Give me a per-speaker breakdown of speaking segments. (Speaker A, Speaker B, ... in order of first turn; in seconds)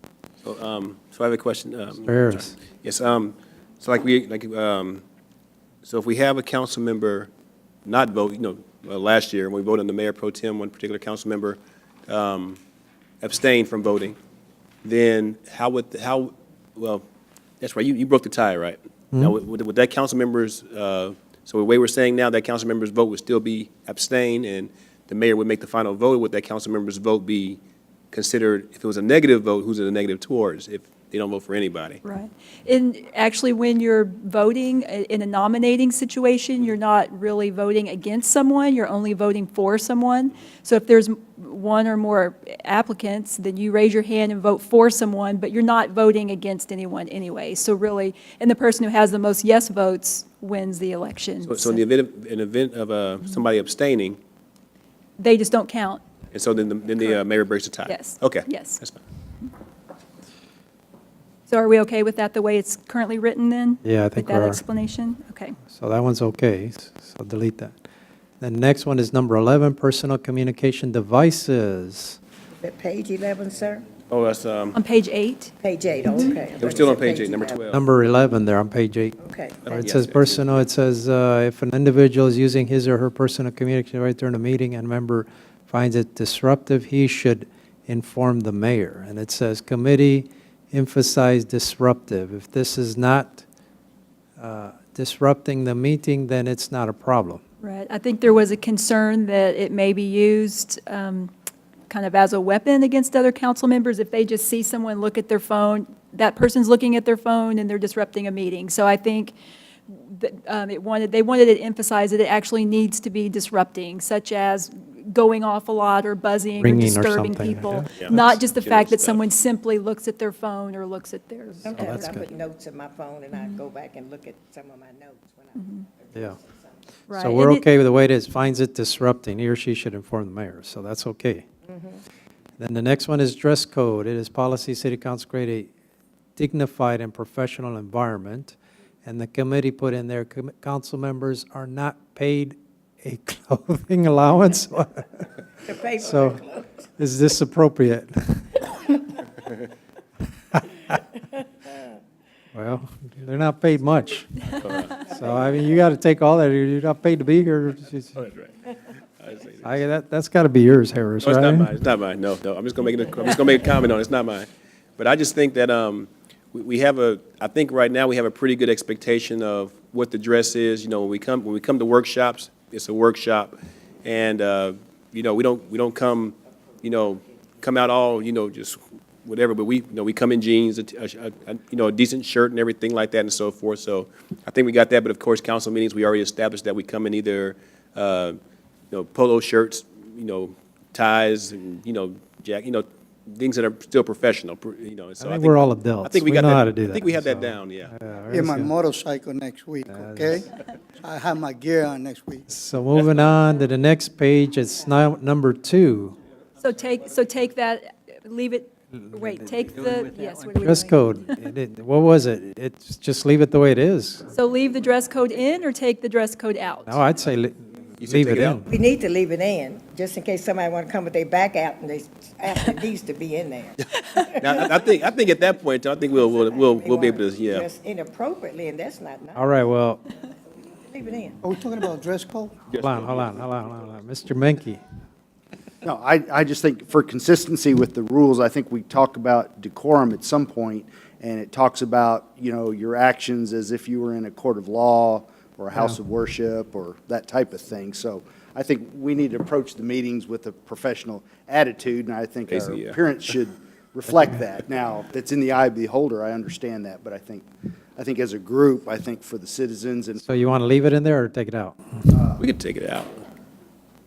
Speaker A: 0.4-5.0, 5.8-7.3, 7.8-12.6, 13.2-14.2, 14.8-17.0, 17.6-27.6, 28.1-32.0, 51.5-54.2, 56.3-59.0, 74.1-74.8, 76.6-77.8, 79.7-80.5, 118.0-119.2, 154.6-155.0, 158.2-159.8, 161.2-188.4, 188.9-197.9, 218.0-218.6, 224.3-227.7, 232.7-233.4, 252.5-253.0, 262.4-263.2
Speaker B: 2.0-2.5, 63.8-64.6, 65.7-67.7, 68.4-72.2, 77.7-79.2, 79.7-93.4, 94.4-97.4, 116.6-117.9, 121.8-122.2, 127.2-131.4, 132.6-135.7, 136.4-145.3, 145.9-148.6, 152.5-158.1, 159.6-161.7, 195.2-198.7, 199.9-200.4, 202.5-206.2, 209.2-209.9, 210.5-214.2, 216.9-217.5, 218.1-218.7, 229.3-230.1, 232.7-234.8, 260.2-262.2
Speaker C: 32.0-51.8, 55.2-56.0, 57.9-58.8, 61.5-65.5, 74.7-75.5, 76.1-76.4, 97.6-101.3, 101.9-109.3, 109.9-122.1, 125.5-125.8, 127.1-127.7, 206.6-211.0, 214.3-217.0
Speaker D: 72.5-73.9, 75.6-77.6, 79.2-79.6, 121.6-126.8, 131.7-132.0, 145.7-146.7, 218.7-224.8, 226.1-229.6, 230.6-231.4
Speaker E: 198.3-202.5, 231.4-232.6
Speaker F: 235.8-260.4